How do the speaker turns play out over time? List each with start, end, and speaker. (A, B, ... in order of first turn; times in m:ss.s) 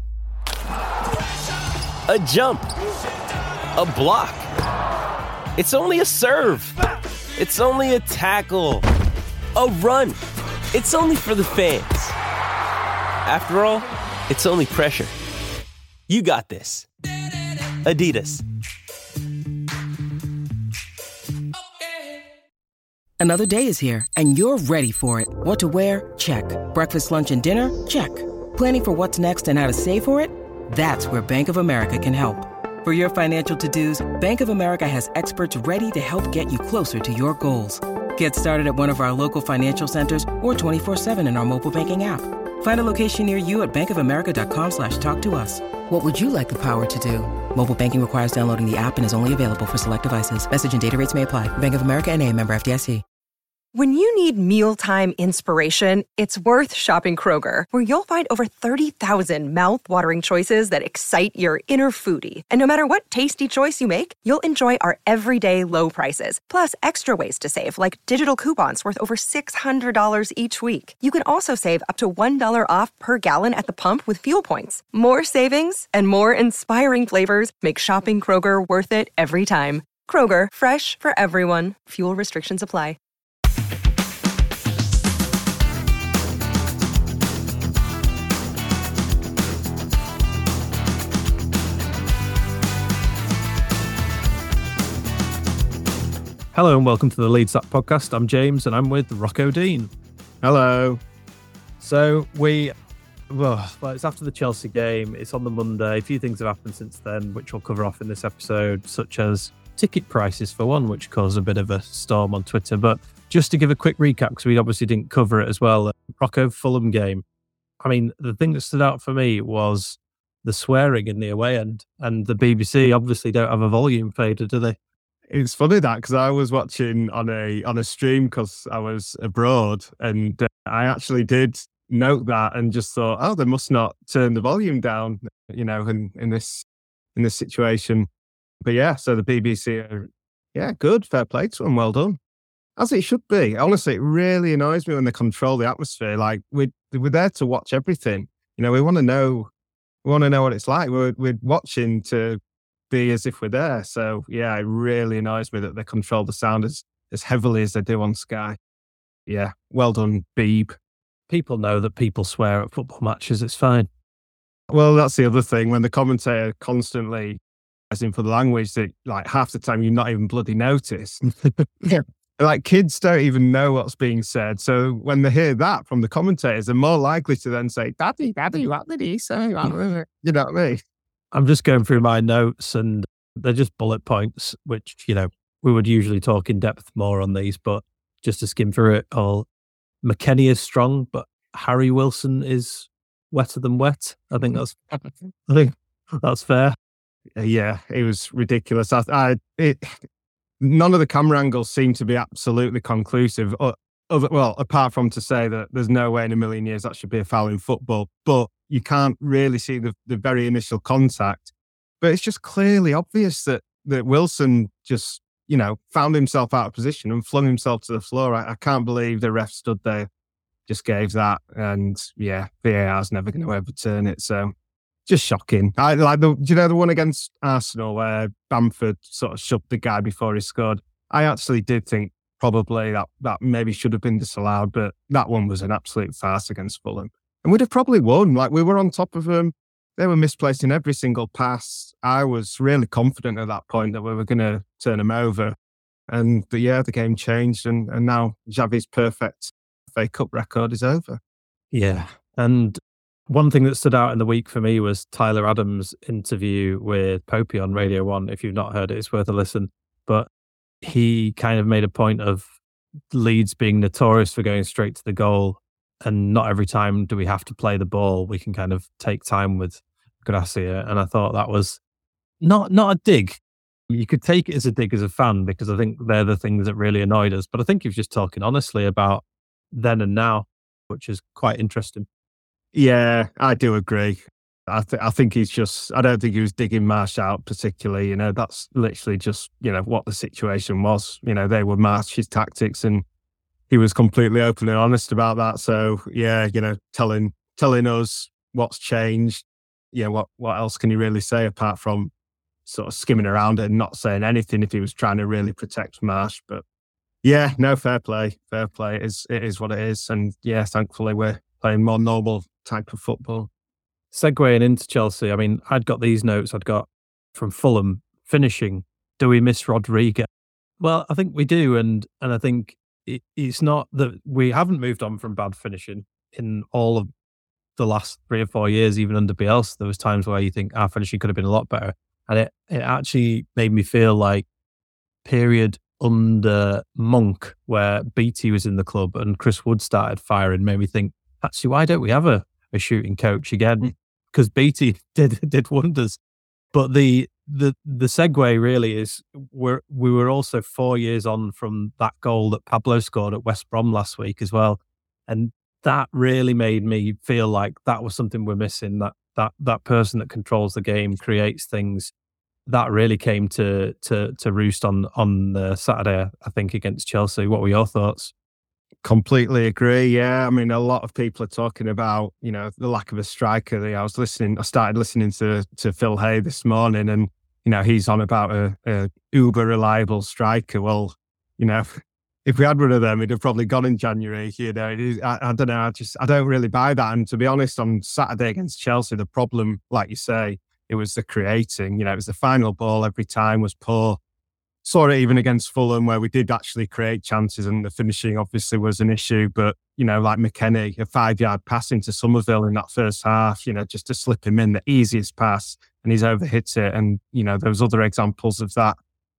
0:02.1-0:02.7 A
0:03.7-0:04.4 A
0:05.5-0:06.8 A
0:07.4-0:08.8 A
0:09.5-0:10.2 A
0:10.7-0:12.1 A
0:13.2-0:15.1 A
0:16.1-0:16.9 A
0:17.8-0:18.4 A
0:23.2-0:53.0 B
0:53.7-1:23.0 C
1:36.5-1:39.9 D
1:40.4-1:41.0 E
1:41.8-1:42.7 D
1:43.3-1:57.2 D
1:57.8-2:04.8 D
2:05.3-2:16.6 E
2:17.1-2:18.1 E
2:18.6-2:22.2 E
2:22.8-2:29.5 E
2:30.0-2:38.6 E
2:39.3-2:40.7 E
2:41.3-2:43.9 D
2:44.7-2:47.4 E
2:47.9-3:00.8 E
3:01.3-3:09.5 D
3:10.0-3:14.8 D
3:15.5-3:16.7 D
3:17.4-3:19.9 E
3:20.6-3:40.1 E
3:40.7-3:44.5 E
3:45.1-4:05.5 E
4:06.1-4:11.2 E
4:11.7-4:20.3 D
4:20.8-4:22.5 D
4:23.1-4:31.8 D
4:32.4-4:42.0 D
4:42.7-4:53.0 E
4:53.7-5:02.1 E
5:02.6-5:06.6 E
5:07.2-5:13.5 E
5:14.1-5:20.2 D
5:20.8-5:27.1 D
5:27.8-5:34.4 D
5:35.2-5:46.2 D
5:46.7-6:02.1 D
6:02.7-6:08.3 D
6:09.0-6:21.9 E
6:22.4-6:34.2 E
6:34.8-6:49.0 E